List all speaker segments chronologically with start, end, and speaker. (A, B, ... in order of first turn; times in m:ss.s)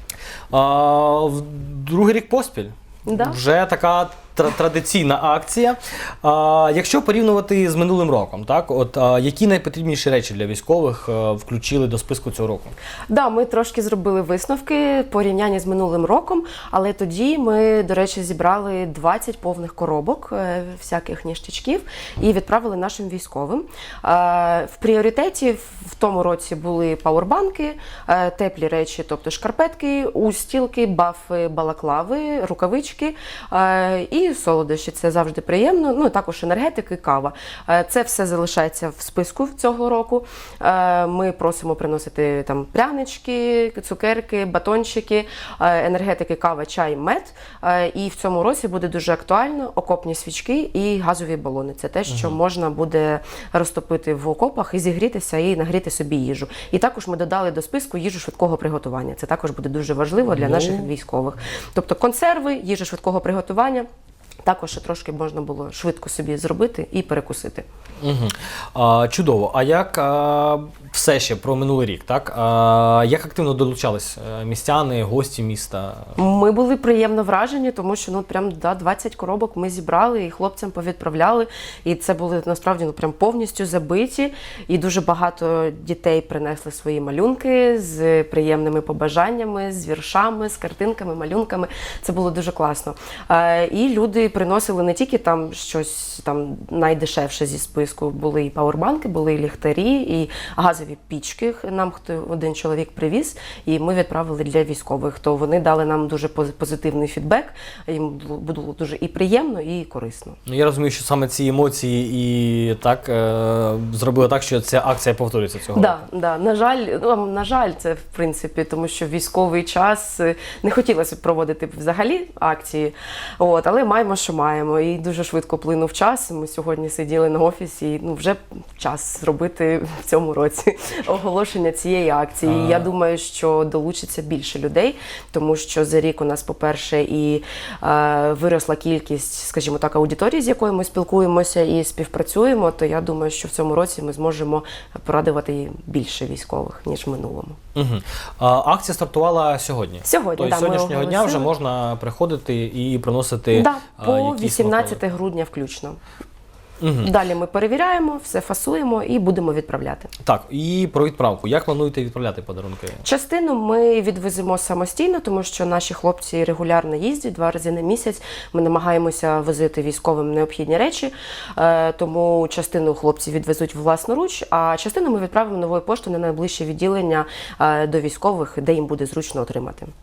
0:00.5-0:12.7 A
0:03.0-0:03.4 B
0:13.1-1:03.9 B
0:52.1-0:52.4 A
1:00.3-1:00.9 A
1:04.4-1:07.7 B
1:08.0-1:16.2 A
1:16.2-1:50.4 B
1:50.4-1:56.0 A
1:55.7-2:27.6 B
2:12.4-2:12.9 A
2:27.8-2:35.0 A
2:30.0-2:31.5 B
2:33.5-2:36.0 B
2:36.8-2:37.1 A
2:37.0-2:40.1 B
2:40.2-2:43.0 A
2:43.0-2:59.9 B